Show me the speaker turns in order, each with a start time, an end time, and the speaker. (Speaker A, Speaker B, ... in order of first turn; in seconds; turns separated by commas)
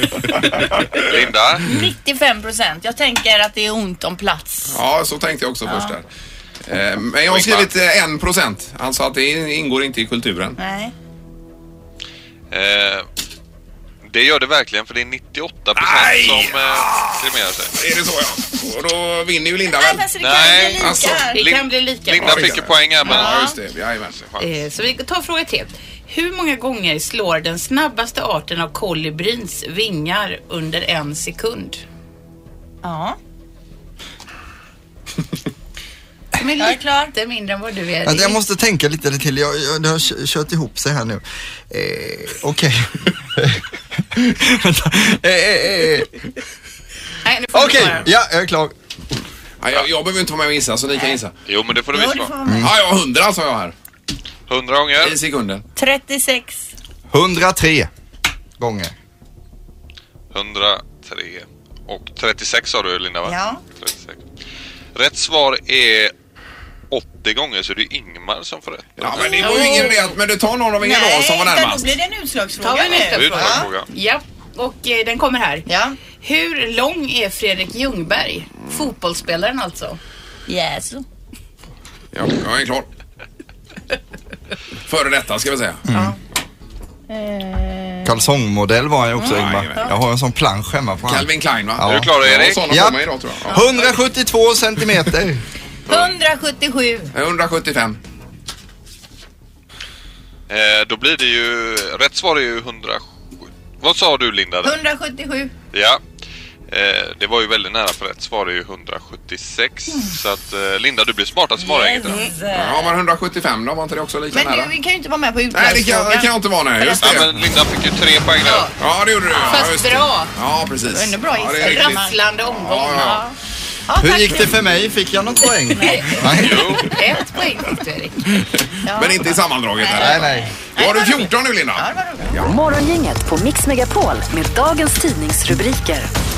Speaker A: 0.9-1.7, Speaker B: 1.6-4.8, Speaker C: 4.7-6.0, Speaker B: 5.7-5.9, Speaker C: 6.7-10.6, Speaker A: 7.3-7.7, Speaker B: 10.6-10.9, Speaker A: 12.5-13.0, Speaker A: 14.1-17.8, Speaker C: 15.8-20.1, Speaker B: 19.8-21.4, Speaker A: 20.2-23.4, Speaker C: 20.8-21.3, Speaker D: 21.3-22.6, Speaker C: 22.2-24.3, Speaker B: 23.0-23.5, Speaker D: 24.4-31.8, Speaker B: 32.8-33.2, Speaker D: 36.4-38.4, Speaker B: 36.6-37.1, Speaker E: 38.0-46.1, Speaker D: 47.2-48.1, Speaker E: 47.5-48.7, Speaker C: 49.6-51.3, Speaker A: 51.5-52.3, Speaker B: 51.9-52.7, Speaker E: 52.5-52.7, Speaker C: 52.6-53.7, Speaker A: 54.5-55.2, Speaker C: 55.0-55.6, Speaker B: 55.8-56.7, Speaker E: 57.1-57.9, Speaker E: 58.6-58.9, Speaker A: 60.3-64.2, Speaker B: 63.2-63.6, Speaker A: 64.9-66.1, Speaker A: 66.9-69.4, Speaker C: 69.0-72.0, Speaker D: 69.4-70.0, Speaker B: 69.4-70.1, Speaker B: 70.8-73.7, Speaker D: 72.6-75.6, Speaker A: 73.1-73.9, Speaker B: 75.7-76.0, Speaker D: 76.2-80.0, Speaker B: 80.5-81.0, Speaker C: 82.1-82.9, Speaker C: 84.9-85.8, Speaker E: 85.9-86.1, Speaker B: 87.1-88.2, Speaker E: 88.0-92.1, Speaker B: 89.2-89.9, Speaker C: 89.2-89.8, Speaker C: 91.1-93.6, Speaker A: 91.8-92.7, Speaker E: 92.7-95.4, Speaker B: 93.5-93.9, Speaker B: 95.9-97.1, Speaker C: 97.1-98.0, Speaker A: 100.5-103.0, Speaker A: 103.8-104.8, Speaker B: 104.6-105.5, Speaker A: 105.7-106.0, Speaker A: 106.7-112.2, Speaker B: 111.6-112.9, Speaker C: 112.5-114.7, Speaker B: 114.3-117.2, Speaker C: 115.5-117.3, Speaker A: 117.0-118.7, Speaker D: 118.4-118.7, Speaker C: 118.8-123.2, Speaker D: 119.3-120.3, Speaker B: 120.9-122.2, Speaker D: 121.6-123.3, Speaker B: 123.9-124.5, Speaker E: 124.0-126.6, Speaker B: 125.7-126.3, Speaker D: 125.9-128.2, Speaker A: 126.4-126.9, Speaker C: 128.7-132.5, Speaker B: 128.8-132.4, Speaker E: 130.0-130.5, Speaker F: 132.4-136.1